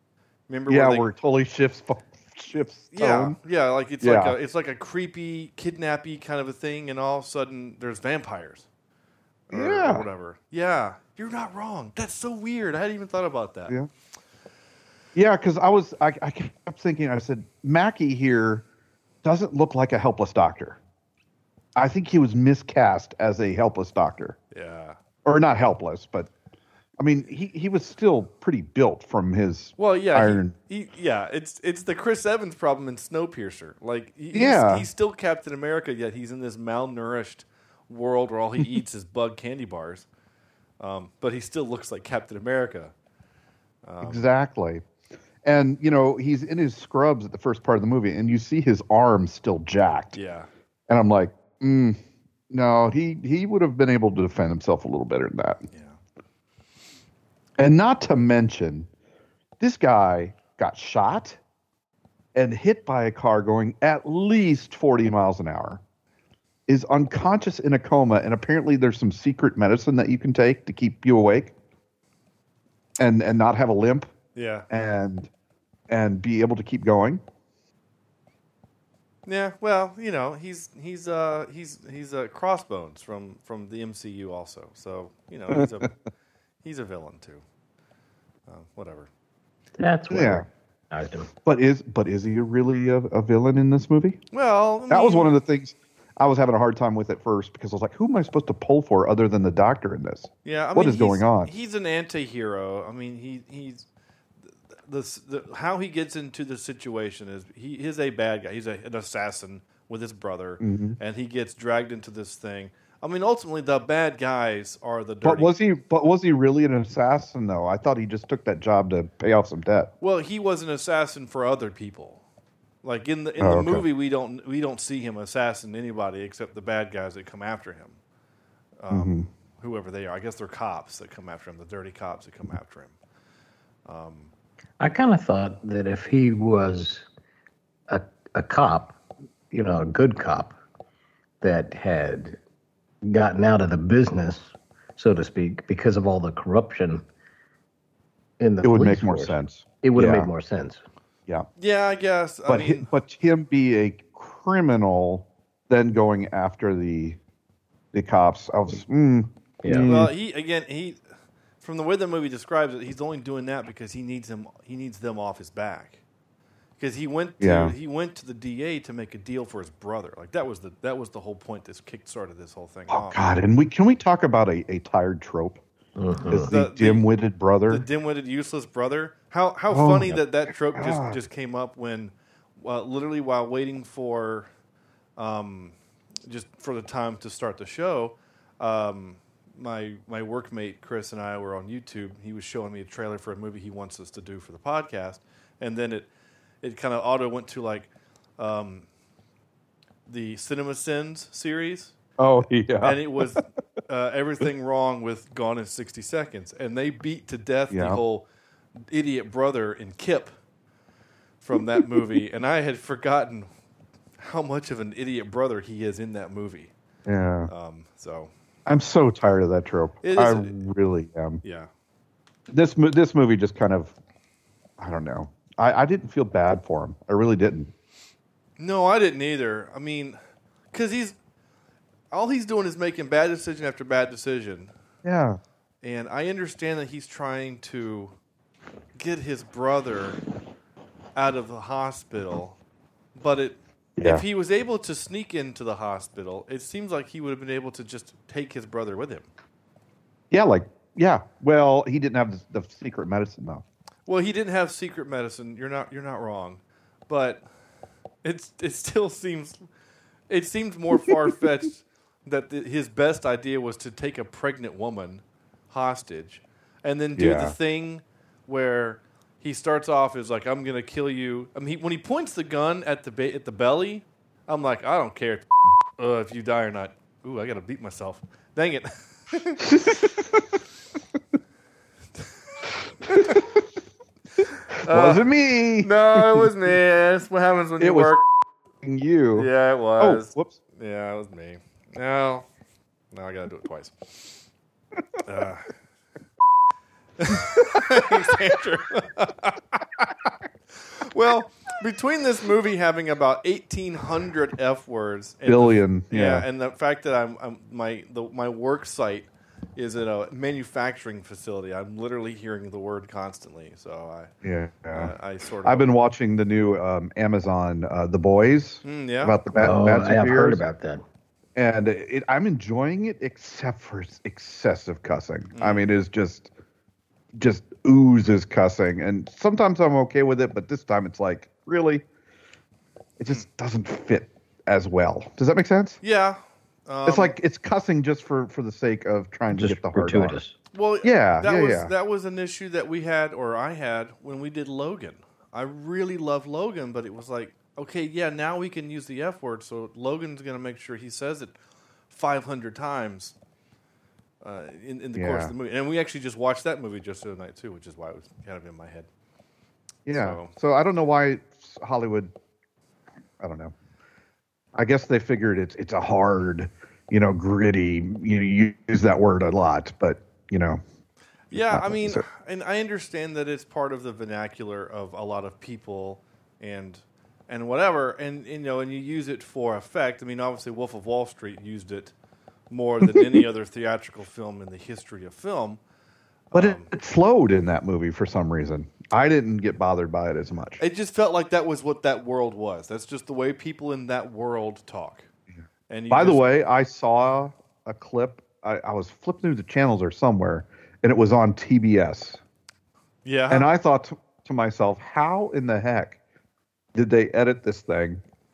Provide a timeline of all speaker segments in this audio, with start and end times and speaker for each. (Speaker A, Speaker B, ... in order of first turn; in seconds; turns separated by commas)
Speaker A: 0.5-1.1, Speaker B: 0.7-3.4, Speaker A: 2.9-8.7, Speaker B: 4.0-4.4, Speaker A: 9.5-13.8, Speaker B: 9.5-10.1, Speaker B: 15.1-18.6, Speaker B: 19.2-20.8, Speaker B: 21.8-24.4, Speaker A: 24.5-25.0, Speaker B: 25.2-26.3, Speaker B: 27.0-30.6, Speaker A: 29.8-40.1, Speaker B: 34.3-34.9, Speaker A: 40.8-42.9, Speaker A: 43.9-44.2, Speaker B: 44.0-44.8, Speaker B: 45.4-50.2, Speaker A: 50.1-50.5, Speaker B: 50.9-52.0, Speaker B: 52.5-55.6, Speaker A: 55.7-56.0, Speaker B: 57.6-58.9, Speaker B: 59.6-61.4, Speaker B: 62.4-65.8, Speaker B: 66.7-71.5, Speaker B: 73.0-74.1, Speaker A: 74.3-74.7, Speaker B: 74.7-75.3, Speaker B: 75.9-77.2, Speaker A: 79.2-85.9, Speaker B: 85.5-85.8, Speaker A: 86.6-87.4, Speaker A: 88.5-89.1, Speaker C: 89.8-91.3, Speaker B: 90.1-90.5, Speaker B: 91.5-94.2, Speaker A: 94.3-95.3, Speaker B: 94.9-101.5, Speaker A: 100.4-103.9, Speaker A: 104.9-115.5, Speaker B: 110.6-111.0, Speaker B: 115.2-119.9, Speaker A: 120.0-122.2, Speaker A: 122.8-128.0, Speaker B: 123.4-123.8, Speaker A: 128.8-133.0, Speaker B: 128.9-129.3, Speaker A: 133.9-134.3, Speaker C: 134.8-137.1, Speaker C: 137.9-139.0, Speaker C: 139.5-140.6, Speaker C: 141.4-142.4, Speaker C: 143.0-147.0, Speaker C: 148.4-150.8, Speaker B: 148.6-150.3, Speaker A: 151.6-152.9, Speaker B: 152.5-157.2, Speaker B: 157.9-160.1, Speaker C: 159.6-159.9, Speaker A: 159.8-161.0, Speaker A: 161.6-166.0, Speaker A: 166.8-173.2, Speaker B: 167.4-167.8, Speaker B: 172.9-175.6, Speaker C: 176.0-176.5, Speaker B: 176.3-177.9, Speaker A: 176.4-177.1, Speaker A: 177.7-184.5, Speaker B: 179.7-180.2, Speaker B: 180.7-181.2, Speaker A: 185.2-196.1, Speaker A: 196.6-198.9, Speaker A: 200.1-202.0, Speaker B: 202.2-203.4, Speaker A: 202.8-208.2, Speaker B: 207.7-208.0, Speaker A: 208.9-210.3, Speaker A: 211.4-213.5, Speaker B: 211.6-212.1, Speaker A: 214.2-216.7, Speaker B: 217.1-217.5, Speaker A: 217.5-218.3, Speaker B: 218.7-221.4, Speaker A: 220.0-220.6, Speaker A: 221.4-221.7, Speaker B: 222.5-223.9, Speaker B: 224.8-227.7, Speaker A: 228.6-230.2, Speaker A: 230.7-231.2, Speaker A: 232.1-234.7, Speaker B: 235.0-235.4, Speaker A: 235.8-238.1, Speaker A: 238.9-240.2, Speaker A: 241.1-242.6, Speaker A: 243.1-249.3, Speaker B: 244.0-244.2, Speaker B: 250.3-253.6, Speaker A: 254.1-257.4, Speaker A: 258.2-259.6, Speaker A: 260.3-275.5, Speaker B: 267.2-267.6, Speaker A: 276.0-279.7, Speaker B: 279.6-280.6, Speaker A: 283.1-283.4, Speaker B: 283.1-283.5, Speaker A: 284.8-288.2, Speaker B: 284.8-286.5, Speaker B: 287.8-288.2, Speaker B: 288.8-290.6, Speaker A: 289.4-292.4, Speaker A: 293.1-294.4, Speaker A: 295.2-295.7, Speaker A: 297.2-299.8, Speaker A: 300.9-314.3, Speaker B: 305.5-306.5, Speaker B: 314.4-320.6, Speaker A: 314.9-315.9, Speaker A: 318.8-319.4, Speaker C: 319.6-321.0, Speaker B: 321.5-326.5, Speaker A: 325.5-325.9, Speaker B: 327.4-332.0, Speaker B: 333.2-336.0, Speaker A: 336.0-337.4, Speaker B: 337.1-340.4, Speaker C: 339.5-340.6, Speaker A: 340.7-351.5, Speaker B: 341.0-341.9, Speaker A: 352.1-353.4, Speaker A: 354.4-359.1, Speaker B: 355.1-355.5, Speaker B: 360.1-362.3, Speaker A: 360.1-360.5, Speaker B: 363.4-363.7, Speaker B: 364.8-370.8, Speaker A: 371.5-382.1, Speaker B: 371.7-372.2, Speaker A: 382.7-385.8, Speaker A: 386.5-386.9, Speaker B: 386.5-390.8, Speaker A: 390.8-395.3, Speaker A: 395.9-396.5, Speaker B: 396.1-402.4, Speaker A: 403.2-403.7, Speaker B: 403.5-406.2, Speaker B: 406.9-408.2